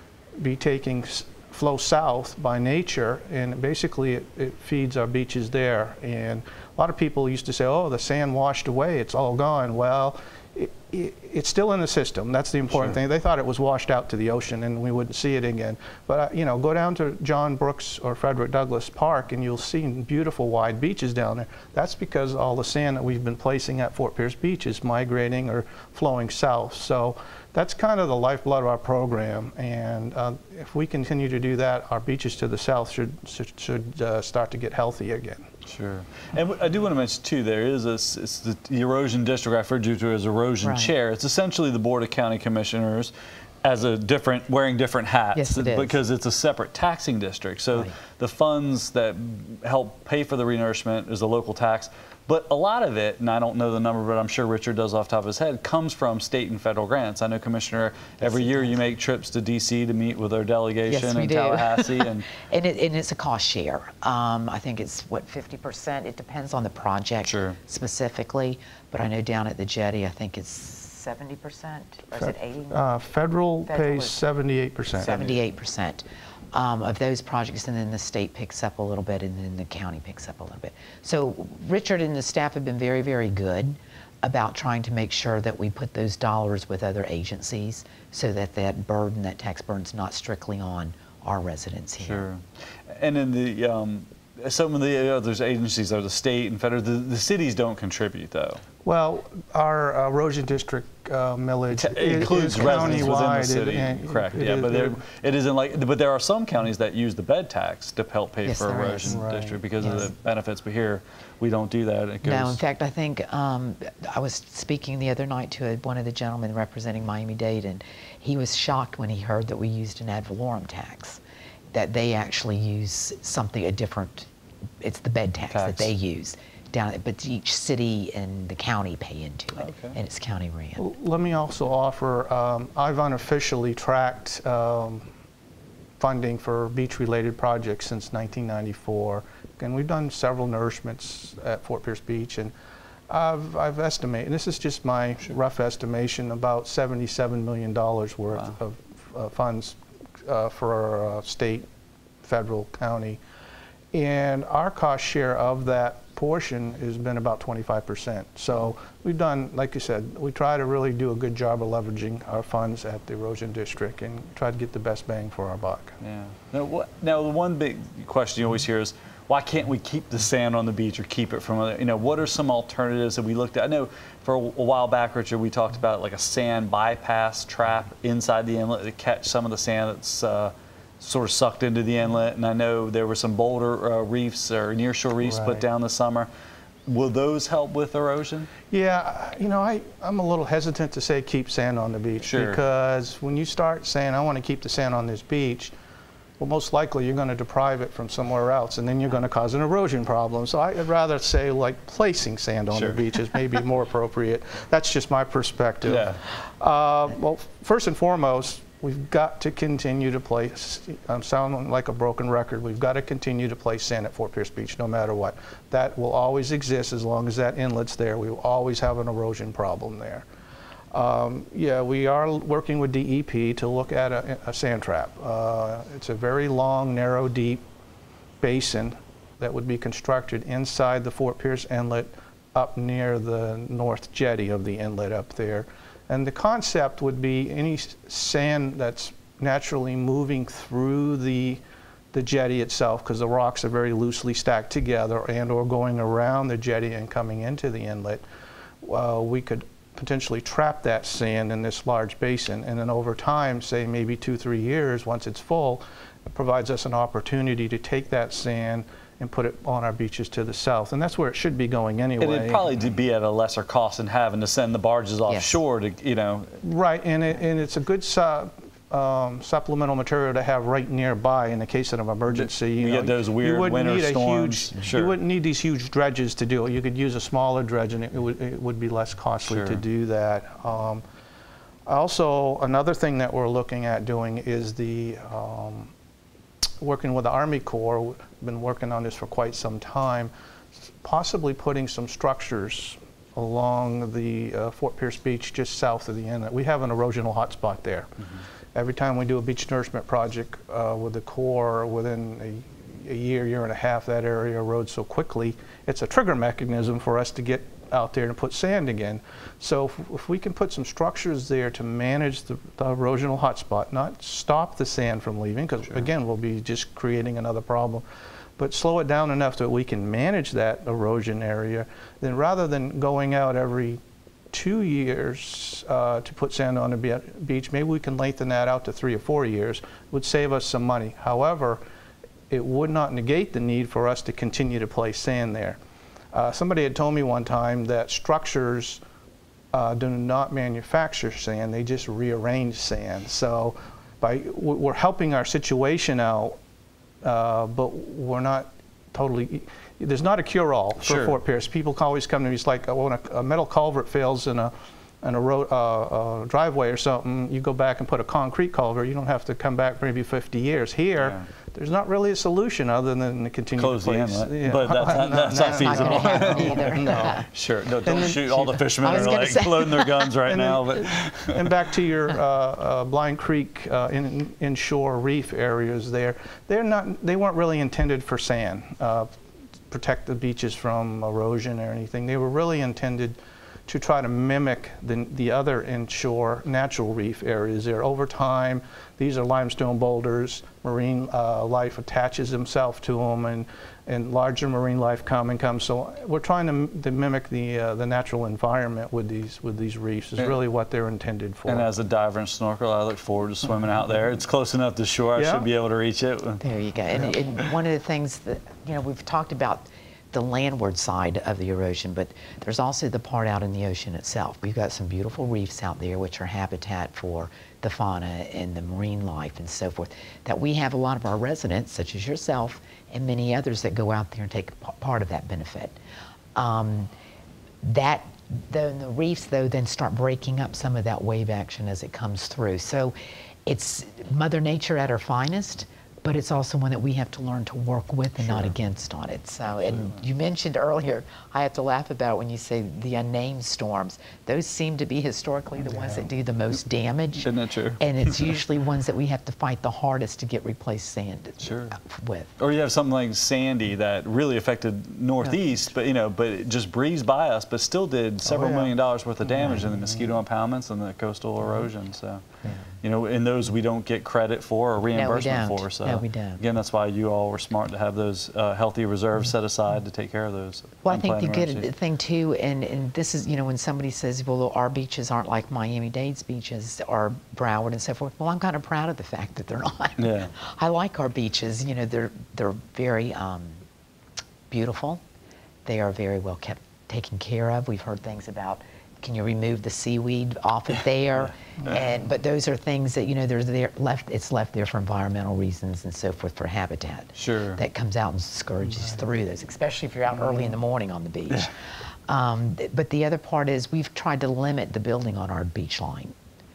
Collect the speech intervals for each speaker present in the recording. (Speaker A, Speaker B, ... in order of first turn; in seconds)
Speaker A: 0.4-35.5, 72.1-75.4, 98.8-105.0, 109.0-110.1, 130.8-135.1, 136.0-142.5, 143.1-151.7, 152.2-153.2, 153.9-165.9, 185.2-185.6, 188.7-195.7, 196.4-220.2, 220.9-227.6, 228.4-241.6, 242.1-248.2, 248.8-262.7, 266.6-281.0, 281.9-285.9, 286.8-298.2, 298.7-318.0, 318.6-324.0, 324.5-331.8, 332.5-335.8, 336.3-339.0, 339.7-346.6, 347.2-367.4, 368.0-369.4, 370.5-379.3, 379.9-401.9, 405.4-405.7, 458.5-458.9, 498.9-499.2
Speaker B: 35.6-43.1, 43.6-62.2, 67.2-67.6, 92.0-98.6, 101.7-112.6, 125.5-125.9, 129.6-130.0, 166.0-186.3, 186.9-188.5, 192.2-192.6, 202.7-203.0, 205.8-206.2, 262.2-266.5, 272.3-275.2, 279.4-279.8, 351.0-351.4, 361.2-361.5, 363.8-371.7, 401.6-406.6, 438.4-438.7, 439.8-440.2, 445.9-446.2, 447.4-448.5, 451.6-452.0, 452.6-462.4, 463.0-471.9, 480.2-480.5, 497.4-497.8
Speaker C: 40.6-40.9, 45.3-46.0, 58.2-58.8, 60.9-72.8, 73.7-74.2, 74.9-92.3, 102.7-102.9, 108.4-109.2, 109.8-110.1, 112.2-121.2, 121.7-124.3, 124.8-130.8, 265.3-265.6, 365.4-367.5, 368.1-370.3, 406.6-426.0, 426.5-427.1, 427.8-433.1, 433.6-452.5, 459.6-459.9, 465.1-466.6, 471.0-483.8, 484.7-485.2, 485.9-501.7, 502.3-506.3